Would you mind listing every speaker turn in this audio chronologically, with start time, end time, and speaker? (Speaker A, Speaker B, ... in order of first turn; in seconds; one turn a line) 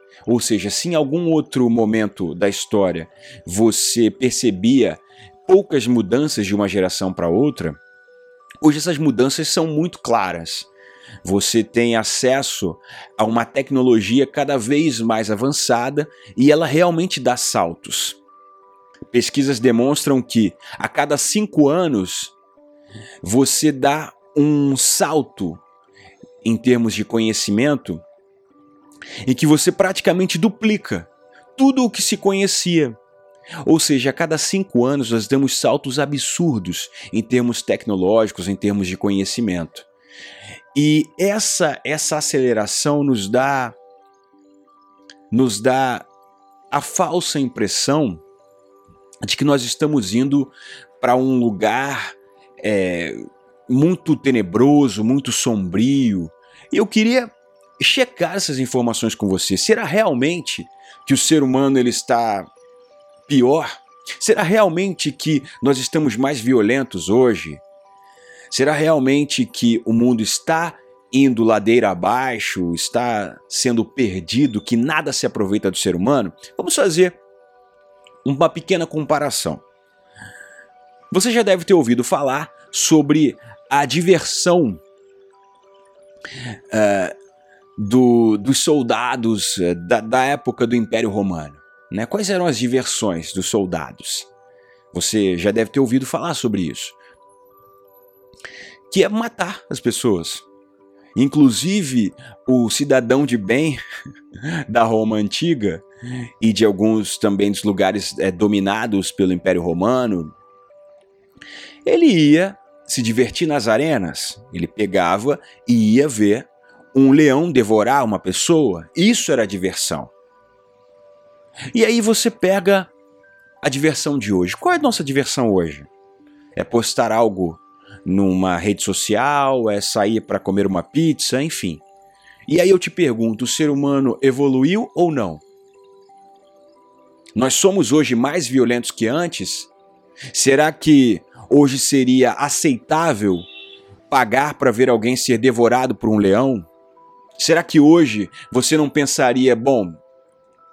Speaker A: 0.3-7.8
Speaker A: 8.6-10.7
Speaker A: 11.2-18.2
Speaker A: 19.1-22.3
Speaker A: 23.2-25.6
Speaker A: 26.4-28.0
Speaker A: 29.2-33.0
Speaker A: 33.6-39.9
Speaker A: 40.7-43.8
Speaker A: 45.3-46.1
Speaker A: 46.7-48.2
Speaker A: 49.2-62.5
Speaker A: 63.3-67.6
Speaker A: 68.5-77.2
Speaker A: 78.2-79.6
Speaker A: 81.1-84.8
Speaker A: 86.7-87.1
Speaker A: 87.8-94.3
Speaker A: 94.9-97.0
Speaker A: 98.9-100.5
Speaker A: 101.2-103.8
Speaker A: 104.7-105.8
Speaker A: 106.4-110.3
Speaker A: 111.8-120.1
Speaker A: 121.7-122.9
Speaker A: 123.6-125.9
Speaker A: 126.6-131.8
Speaker A: 132.5-135.4
Speaker A: 137.4-139.7
Speaker A: 140.3-143.5
Speaker A: 144.1-146.7
Speaker A: 147.4-150.0